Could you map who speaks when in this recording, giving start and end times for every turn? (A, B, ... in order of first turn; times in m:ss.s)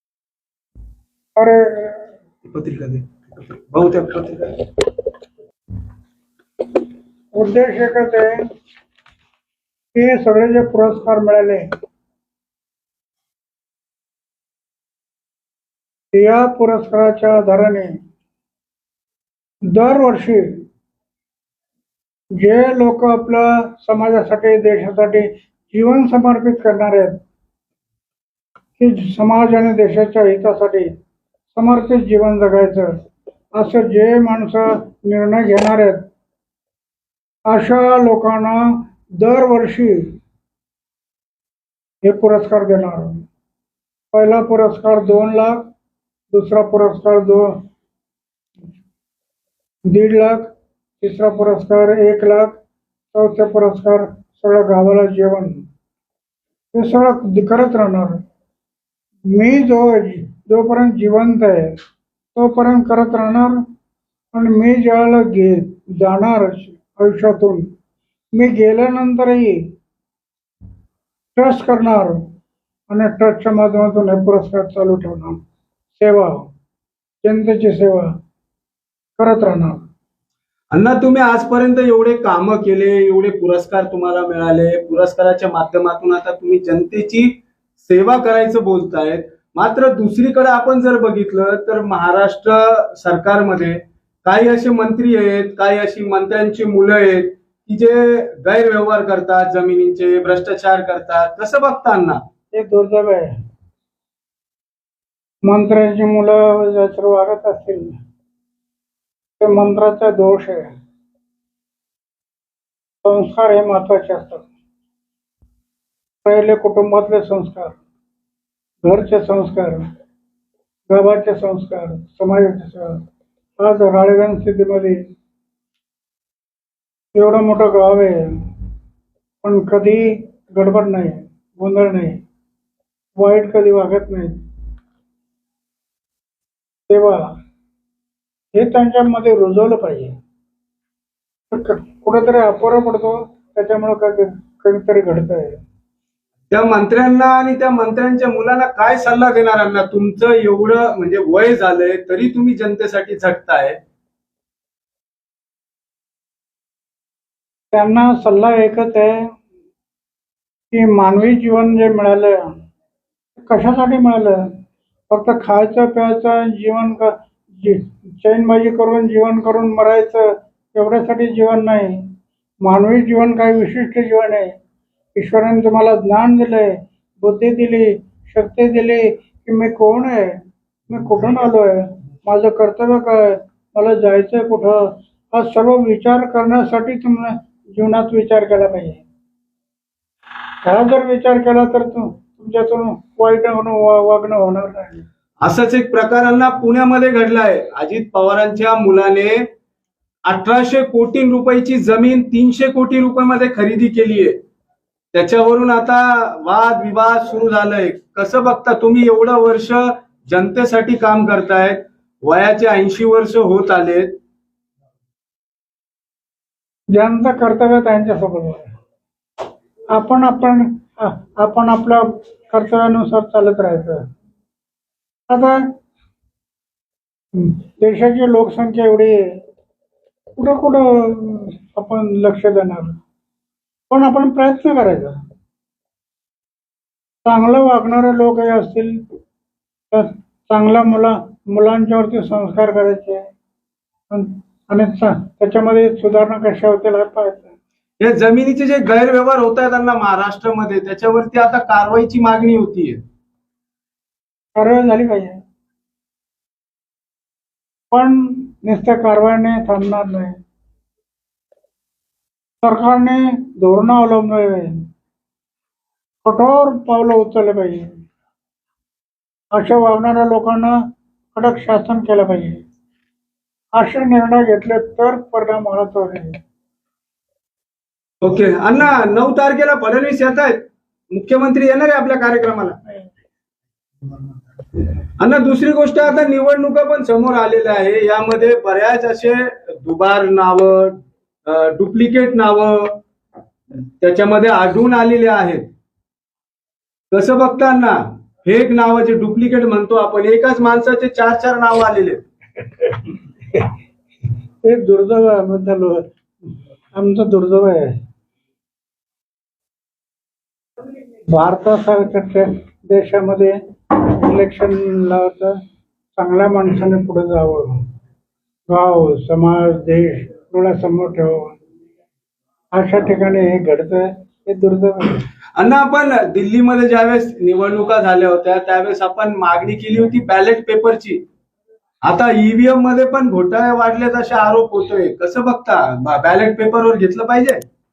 0:01.4-0:02.0 A
0:02.4-0:04.7 B
0:07.3-0:08.3 A
0:09.9-0:11.7 A
0:16.1-0:17.9 A
0:19.7-0:20.6 A
0:22.4-0:27.2 A
0:28.8-0:30.9 A
0:31.5-0:33.0 A
0:33.5-0:36.0 A
0:37.5-0:40.0 A
0:42.0-0:43.2 A
0:44.1-0:45.6 A
0:46.3-0:47.5 A
0:49.9-0:50.4 A
0:51.0-0:52.5 A
0:53.1-0:55.6 A
0:56.7-0:58.2 A
0:59.3-1:01.7 A
1:02.3-1:03.6 A
1:04.3-1:07.7 A
1:08.3-1:09.6 A
1:11.4-1:12.2 A
1:12.9-1:15.4 A
1:16.0-1:16.5 A
1:17.2-1:18.1 A
1:19.2-1:19.8 A
1:20.7-1:27.3 B
1:27.8-1:42.2 B
1:42.5-1:43.3 A
1:45.4-1:47.9 A
1:49.4-1:50.7 A
1:53.0-1:54.5 A
1:56.2-1:57.8 A
1:58.8-1:59.8 A
2:00.9-2:03.0 A
2:03.6-2:05.0 A
2:07.1-2:08.2 A
2:09.4-2:12.2 A
2:13.2-2:14.4 A
2:16.9-2:17.3 A
2:18.5-2:20.1 A
2:21.5-2:25.6 A
2:26.5-2:33.8 B
2:37.7-2:39.3 A
2:40.7-2:42.4 A
2:43.4-2:44.4 A
2:45.1-2:52.0 A
2:52.6-2:54.5 A
2:55.1-3:00.4 A
3:00.9-3:09.0 A
3:10.6-3:15.0 A
3:15.4-3:19.4 B
3:20.3-3:24.4 B
3:25.1-3:34.2 B
3:36.9-3:38.7 A
3:39.9-3:44.0 A
3:45.3-3:45.6 A
3:47.3-3:49.2 A
3:50.4-3:53.0 A
3:53.9-3:55.2 A
3:57.2-3:59.0 A
3:59.9-4:03.2 A
4:04.1-4:07.5 A
4:08.0-4:13.0 B
4:14.5-4:15.4 A
4:17.9-4:20.4 A
4:22.6-4:24.8 A
4:26.2-4:27.8 A
4:29.5-4:30.7 A
4:31.3-4:32.6 A
4:33.8-4:36.4 A
4:38.2-4:42.8 B
4:45.2-4:53.0 B
4:54.0-4:55.6 B
4:57.1-5:02.2 B
5:04.6-5:06.0 A
5:07.0-5:07.9 A
5:11.3-5:15.6 A
5:16.2-5:17.8 A
5:18.7-5:21.6 A
5:22.7-5:25.2 A
5:25.6-5:31.2 B
5:32.0-5:37.6 B